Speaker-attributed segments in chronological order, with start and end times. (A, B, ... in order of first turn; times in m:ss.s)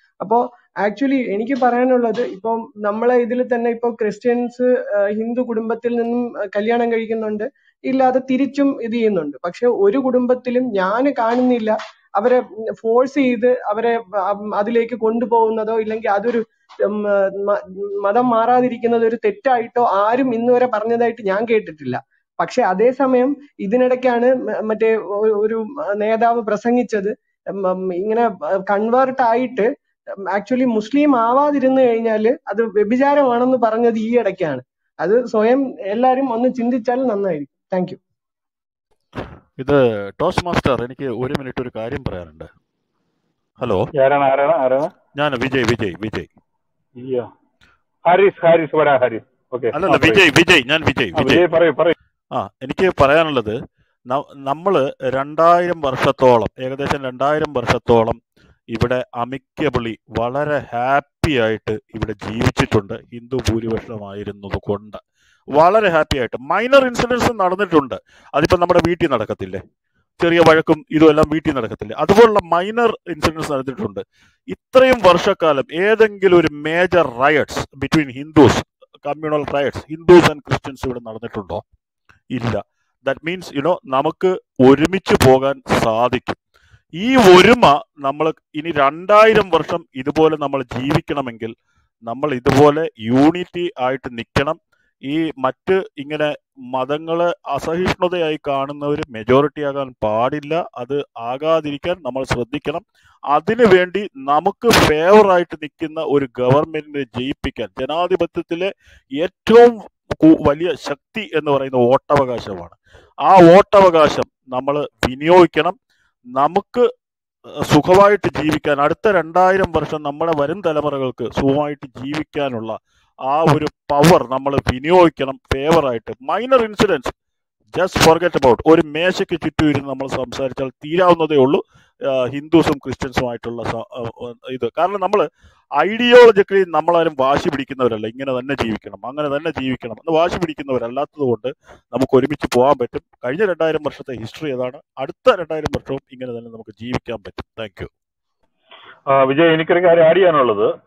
0:00.2-0:29.7 A
0:30.3-0:38.0 A
0:39.6-0:42.5 B
0:43.6-0:43.9 B
0:43.9-0:44.9 C
0:45.1-0:46.3 B
0:47.0-0:47.3 C
0:48.1-0:50.2 C
0:49.7-0:51.5 B
0:51.1-0:51.9 C
0:52.3-0:53.6 B
0:54.1-0:58.2 B
0:58.7-1:05.0 B
1:05.5-1:09.6 B
1:10.2-1:21.6 B
1:22.3-1:26.4 B
1:27.0-1:31.5 B
1:32.0-1:55.8 B
1:56.4-1:56.8 B
1:57.6-2:07.1 B
2:07.7-2:15.2 B
2:15.8-2:27.9 B
2:29.1-2:30.7 C